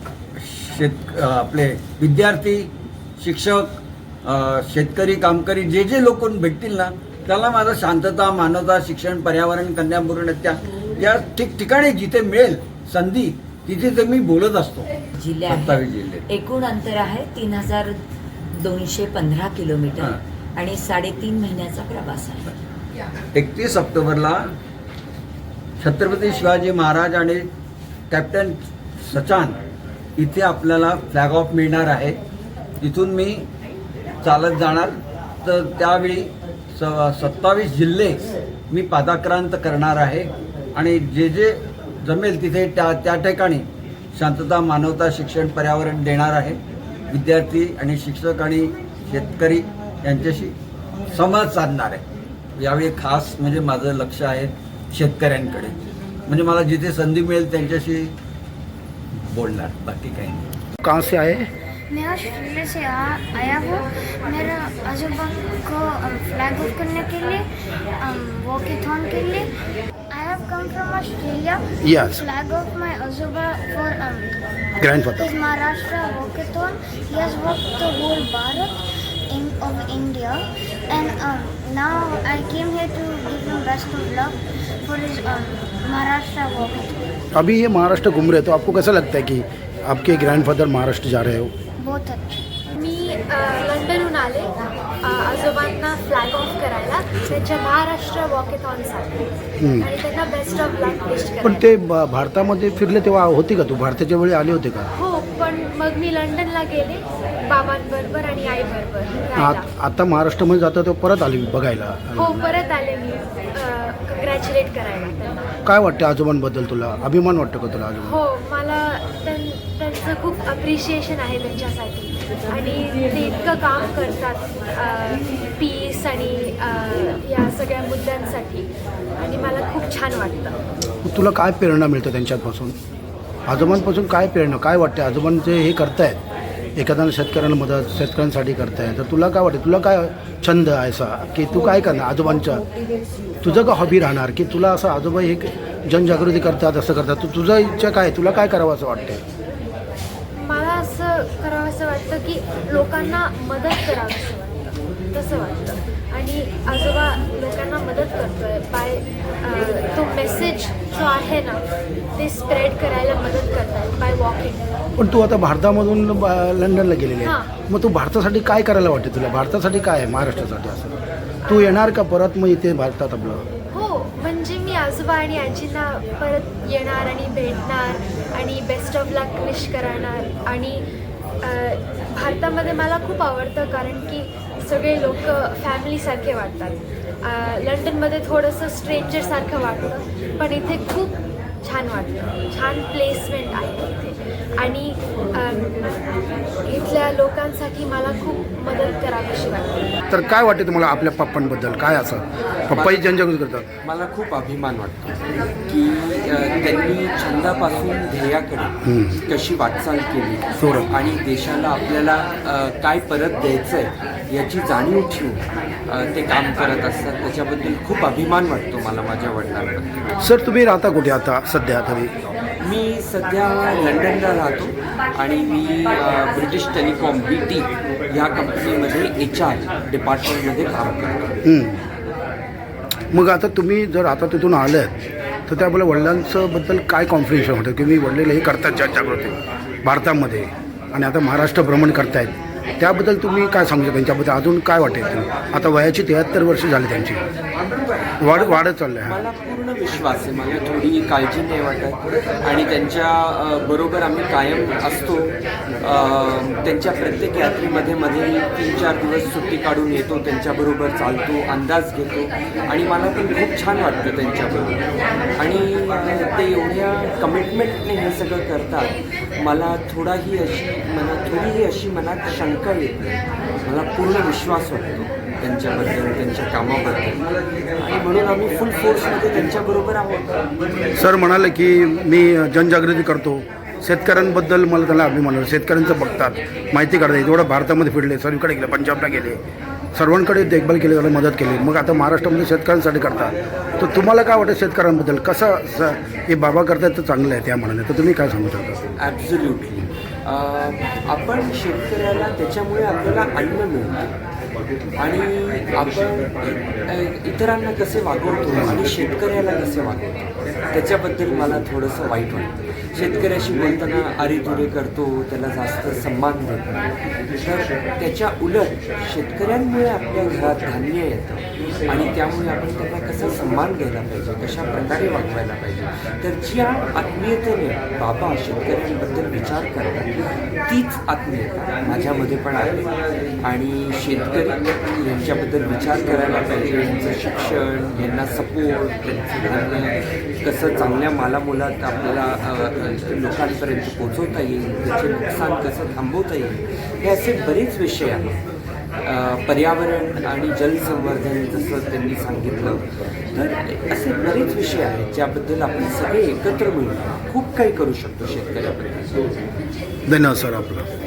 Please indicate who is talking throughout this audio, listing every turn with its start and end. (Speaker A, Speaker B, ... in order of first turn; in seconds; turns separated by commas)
Speaker A: 0.4-14.9, Speaker B: 15.2-22.5, Speaker A: 15.5-16.2, Speaker A: 23.3-24.5, Speaker A: 25.8-27.5, Speaker A: 28.1-29.6, Speaker A: 30.2-32.2, Speaker A: 32.8-33.4, Speaker A: 34.2-46.6, Speaker A: 47.1-50.5, Speaker A: 51.1-52.0, Speaker A: 52.6-58.1, Speaker A: 59.1-60.5, Speaker C: 60.8-61.5, Speaker D: 61.9-67.4, Speaker D: 68.0-69.5, Speaker D: 70.1-74.4, Speaker C: 71.8-72.2, Speaker C: 74.8-75.4, Speaker D: 75.1-78.8, Speaker D: 79.3-87.1, Speaker C: 87.3-91.5, Speaker D: 91.8-92.4, Speaker E: 92.8-101.7, Speaker C: 99.6-99.9, Speaker C: 101.4-104.9, Speaker E: 105.0-109.7, Speaker C: 109.4-112.5, Speaker E: 112.2-115.4, Speaker C: 115.6-118.1, Speaker E: 118.0-130.6, Speaker C: 131.0-132.7, Speaker C: 133.5-136.2, Speaker C: 136.8-142.6, Speaker C: 143.4-149.2, Speaker E: 150.3-161.6, Speaker E: 162.2-164.7, Speaker C: 165.0-170.9, Speaker E: 167.2-167.5, Speaker E: 171.5-171.8, Speaker C: 171.5-173.4, Speaker E: 173.7-180.8, Speaker E: 181.4-199.8, Speaker C: 200.1-203.7, Speaker F: 202.7-203.1, Speaker F: 203.8-219.9, Speaker C: 208.8-209.2, Speaker C: 210.6-210.9, Speaker C: 220.2-222.1, Speaker F: 222.6-231.4, Speaker C: 231.4-231.8, Speaker C: 233.1-234.9, Speaker C: 235.5-247.2, Speaker F: 248.0-264.8, Speaker C: 248.2-249.2, Speaker F: 265.4-277.2, Speaker F: 277.8-280.4, Speaker C: 280.9-289.4, Speaker C: 289.9-298.8, Speaker F: 299.0-304.1, Speaker F: 305.0-316.9, Speaker F: 317.4-330.1, Speaker F: 330.6-332.9, Speaker F: 333.4-348.4, Speaker F: 349.0-359.1, Speaker C: 360.1-360.9